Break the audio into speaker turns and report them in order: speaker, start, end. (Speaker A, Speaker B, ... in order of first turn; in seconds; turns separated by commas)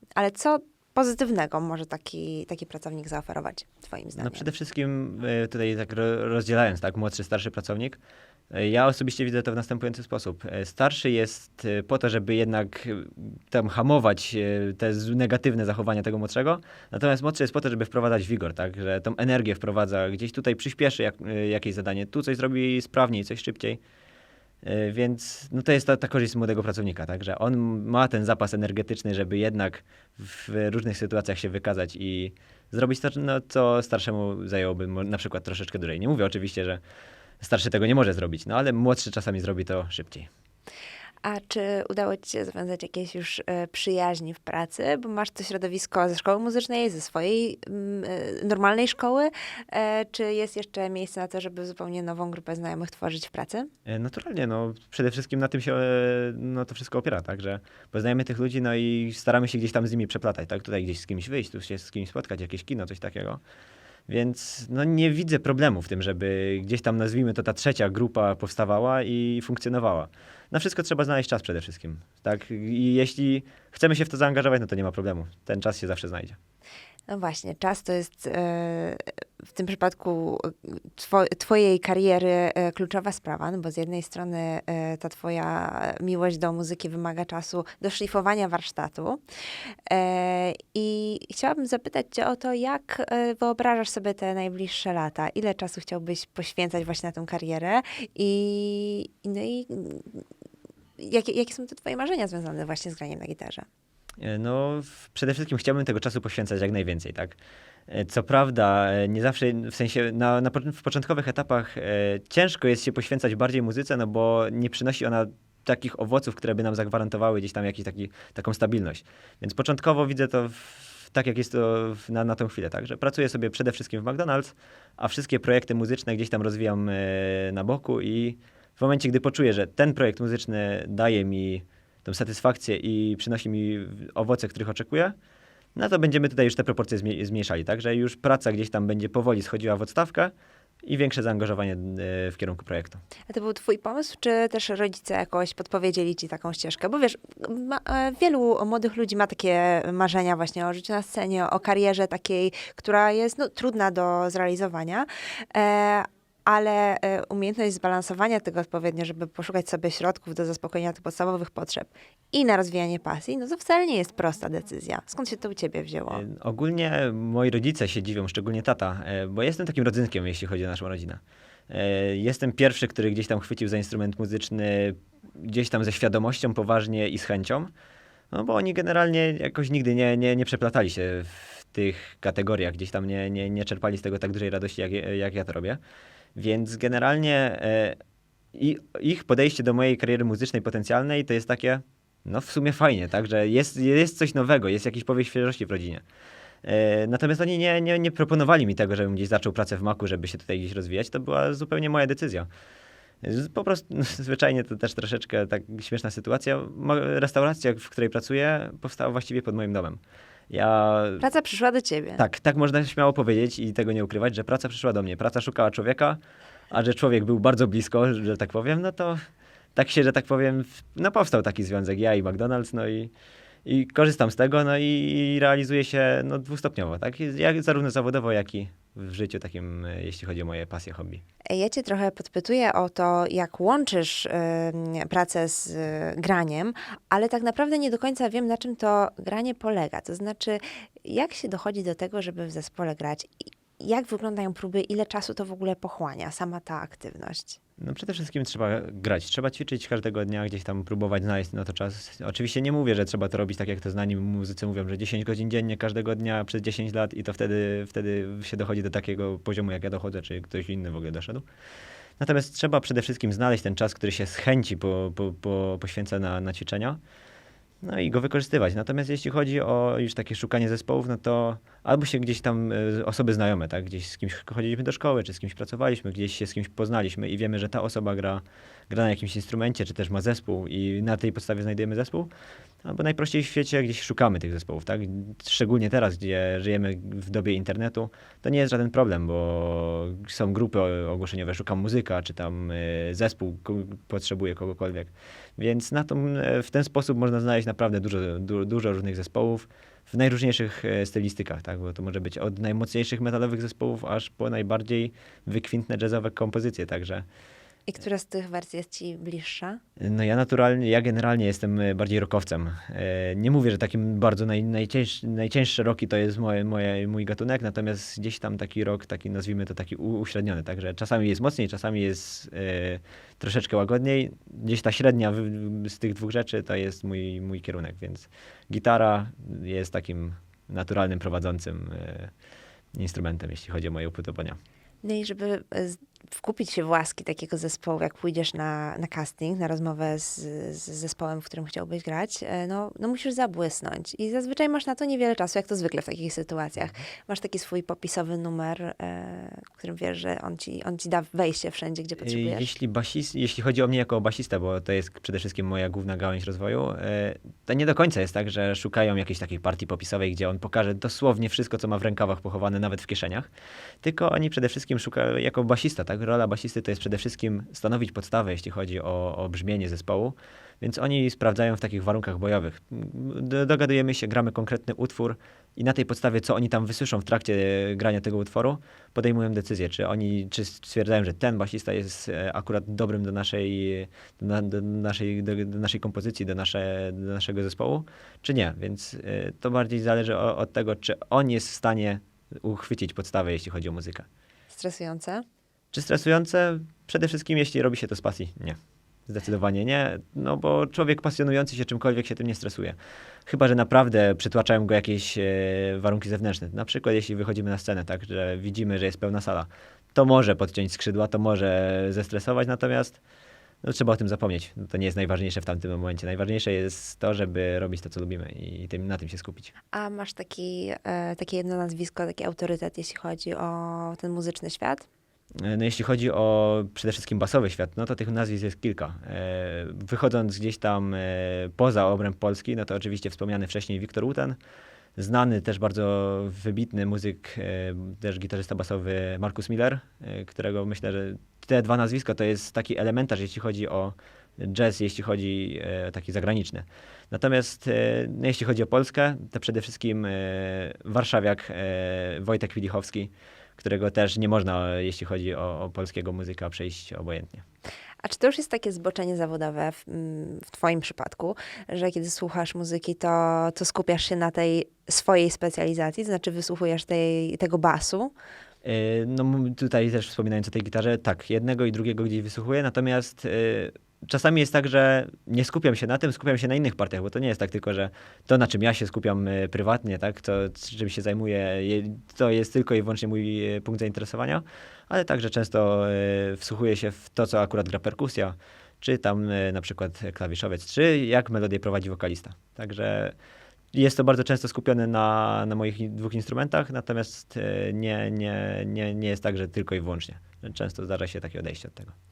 Speaker A: 0.1-4.5, Speaker B: 4.2-8.0, Speaker B: 8.5-23.8, Speaker B: 24.6-36.8, Speaker B: 37.4-40.3, Speaker A: 41.2-53.7, Speaker B: 53.9-63.4, Speaker B: 64.1-76.4, Speaker A: 77.1-89.2, Speaker A: 89.9-100.2, Speaker A: 101.0-103.7, Speaker B: 104.2-107.3, Speaker B: 107.9-135.1, Speaker B: 135.7-143.0, Speaker A: 143.3-166.2, Speaker B: 166.1-177.7, Speaker B: 178.3-185.8, Speaker B: 186.3-188.0, Speaker B: 188.5-196.0, Speaker B: 196.6-202.5, Speaker B: 203.2-211.2, Speaker A: 211.2-212.2, Speaker B: 212.2-216.2, Speaker B: 216.7-223.1, Speaker B: 223.6-231.2, Speaker A: 231.5-247.6, Speaker B: 247.8-261.4, Speaker B: 262.2-267.0, Speaker B: 267.8-282.3, Speaker B: 282.8-307.2, Speaker A: 307.9-309.8, Speaker B: 310.0-332.3, Speaker B: 332.9-334.6, Speaker A: 335.0-352.7, Speaker B: 352.2-363.5, Speaker B: 364.0-394.3, Speaker A: 394.7-395.4, Speaker B: 395.9-413.2, Speaker B: 413.8-419.7, Speaker A: 419.9-425.1, Speaker B: 425.6-434.6, Speaker B: 435.2-457.6, Speaker A: 458.2-468.3, Speaker B: 468.8-493.3, Speaker B: 493.9-502.1